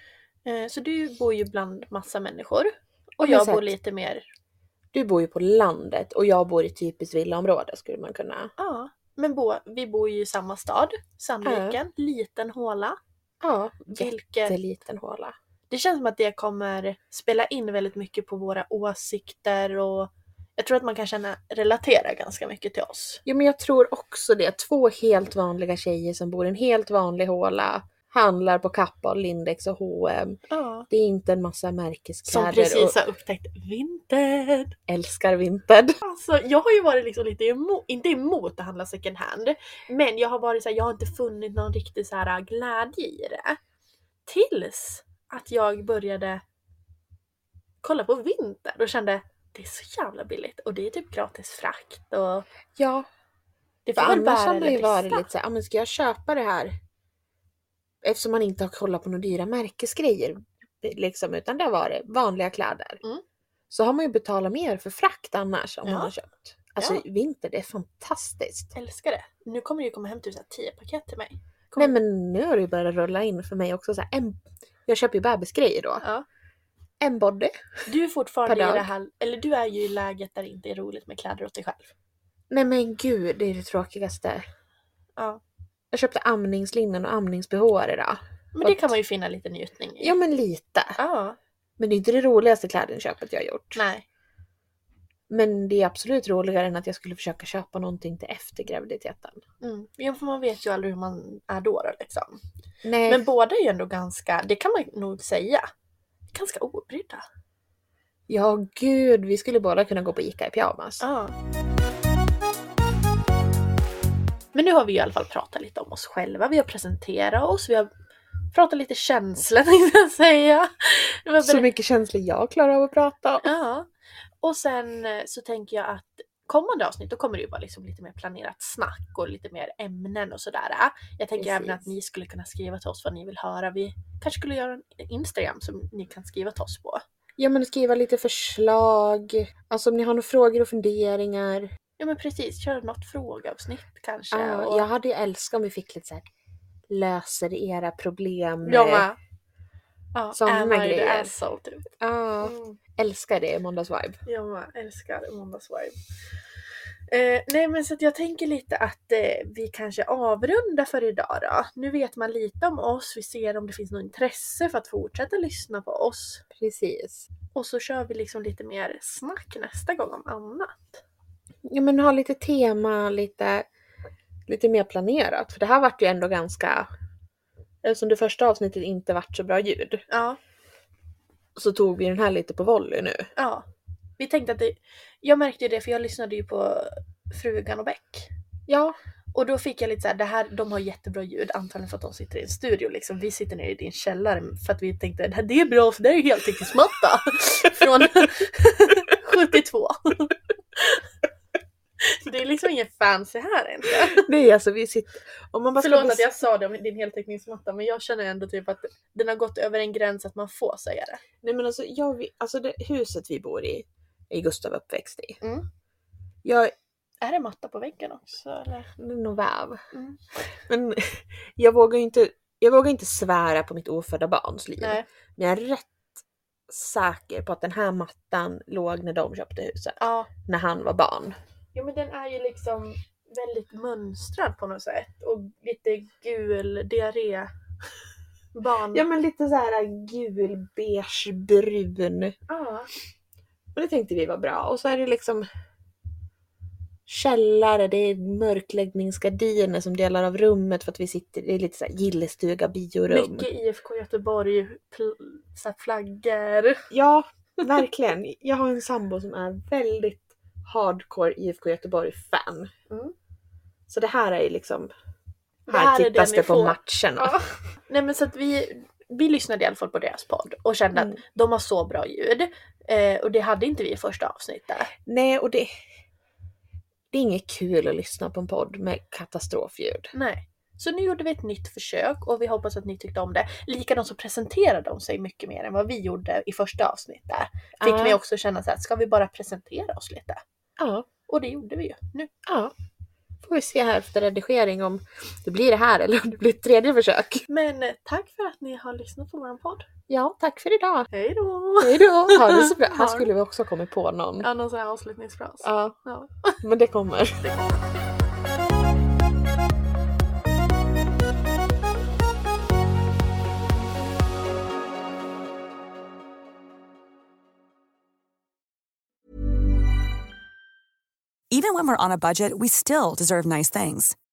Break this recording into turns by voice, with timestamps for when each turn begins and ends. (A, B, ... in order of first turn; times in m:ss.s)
0:00.4-0:04.2 A
0:03.2-0:03.7 B
0:04.9-0:08.5 B
0:08.6-0:13.0 A
0:11.4-0:11.8 B
0:13.4-0:15.4 B
0:13.9-0:14.6 A
0:15.7-0:23.2 A
0:23.3-0:30.4 B
0:30.5-0:30.9 A
0:30.9-0:33.0 B
0:32.3-0:34.8 A
0:34.9-0:36.0 B
0:36.0-0:43.6 A
0:44.3-0:46.4 A
0:47.8-0:52.5 A
0:52.8-0:53.1 B
0:53.9-0:55.2 A
0:54.0-0:56.8 B
0:58.0-1:03.0 B
1:03.7-1:08.7 B
1:05.8-1:06.1 A
1:08.8-1:12.0 A
1:11.8-1:16.1 B
1:17.0-1:17.9 B
1:17.9-1:21.9 A
1:18.5-1:18.9 B
1:22.5-1:24.4 B
1:25.9-1:28.9 B
1:28.5-1:30.2 A
1:30.0-1:31.0 B
1:31.0-1:31.4 A
1:31.8-1:33.8 B
1:33.8-1:34.0 A
1:35.3-1:39.4 B
1:39.6-1:42.4 A
1:42.8-1:43.3 B
1:43.1-1:45.7 A
1:46.3-1:47.2 A
1:48.3-1:51.0 B
1:51.0-1:51.3 A
1:54.5-1:57.9 A
1:58.5-2:01.7 A
2:01.4-2:03.5 B
2:03.4-2:03.9 A
2:04.4-2:17.0 A
2:11.4-2:11.9 B
2:17.4-2:21.7 B
2:22.0-2:24.9 A
2:24.3-2:26.3 B
2:26.9-2:29.1 B
2:28.6-2:29.2 A
2:30.2-2:31.9 A
2:30.3-2:31.3 B
2:32.0-2:34.2 B
2:32.4-2:32.8 A
2:34.3-2:36.0 A
2:37.1-2:46.4 A
2:46.5-2:47.3 B
2:47.6-2:51.0 A
2:51.7-2:53.7 B
2:54.5-2:56.9 B
2:57.8-3:00.0 B
3:00.1-3:00.4 A
3:01.6-3:03.3 B
3:03.4-3:03.7 A
3:04.2-3:08.3 A
3:08.7-3:09.0 B
3:09.3-3:21.0 A
3:22.0-3:24.3 A
3:24.1-3:26.4 B
3:25.8-3:31.2 A
3:31.4-3:35.4 B
3:35.4-3:35.7 A
3:36.4-3:36.7 B
3:37.2-3:38.9 A
3:39.0-3:39.8 B
3:39.9-3:40.2 A
3:40.7-3:51.4 B
3:44.8-3:45.1 A
3:50.0-3:50.3 A
3:51.7-3:57.5 A
3:58.5-3:59.0 A
3:58.9-4:02.4 B
4:02.5-4:02.9 A
4:03.8-4:05.4 B
4:07.1-4:13.5 B
4:13.1-4:16.9 A
4:16.9-4:22.7 B
4:22.9-4:23.1 A
4:23.9-4:24.9 B
4:25.7-4:34.9 A
4:25.7-4:27.4 B
4:30.9-4:31.2 B
4:35.1-4:35.7 B
4:37.1-4:40.1 B
4:40.1-4:50.4 A
4:47.8-4:48.2 B
4:50.8-4:51.1 B
4:51.3-4:52.3 A
4:52.5-4:52.7 B
4:53.4-4:57.4 B
4:57.5-4:59.9 A
5:00.1-5:01.1 B
5:01.1-5:03.3 A
5:01.8-5:04.5 B
5:04.4-5:06.6 A
5:05.6-5:06.0 B
5:06.6-5:07.4 B
5:07.4-5:07.8 A
5:21.5-5:24.2 C